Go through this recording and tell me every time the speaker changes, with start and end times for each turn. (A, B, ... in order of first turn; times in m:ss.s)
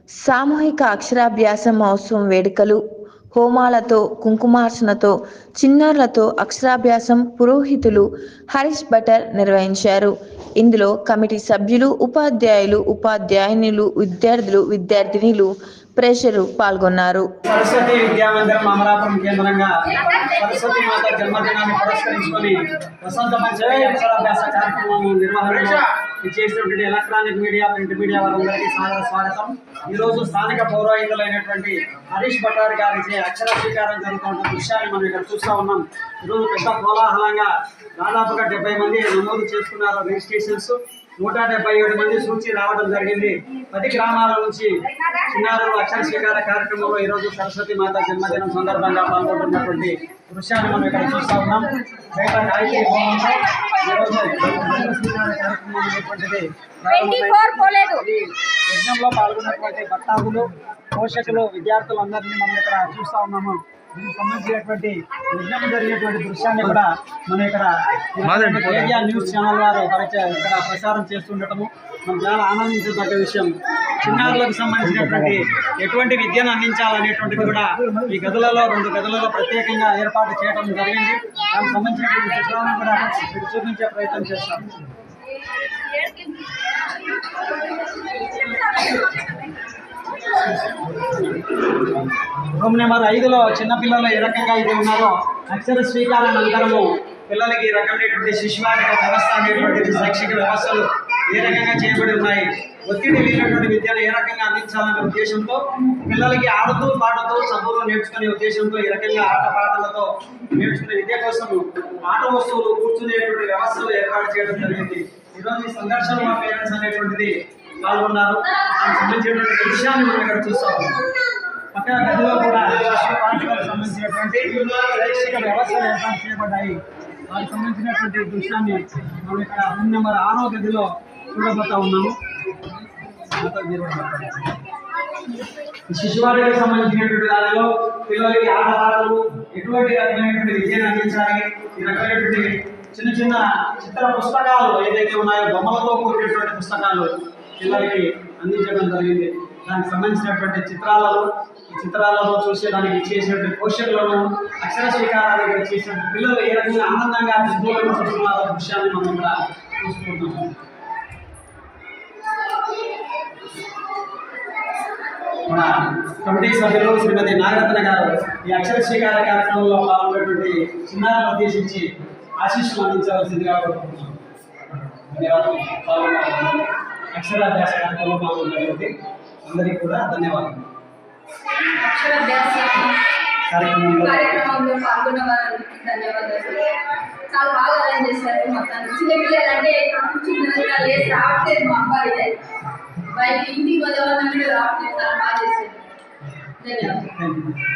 0:00.2-0:17.3 A
0:17.4-1:24.7 B
0:56.9-0:58.0 C
1:32.5-2:01.0 B
2:01.7-2:12.2 B
2:13.3-2:14.6 B
2:15.9-2:40.5 B
2:45.4-2:54.2 B
2:55.0-3:00.7 B
3:01.7-3:03.1 C
3:03.5-3:04.5 B
3:04.0-3:12.4 C
3:13.0-3:15.9 C
3:16.6-3:17.1 C
3:16.8-3:17.6 B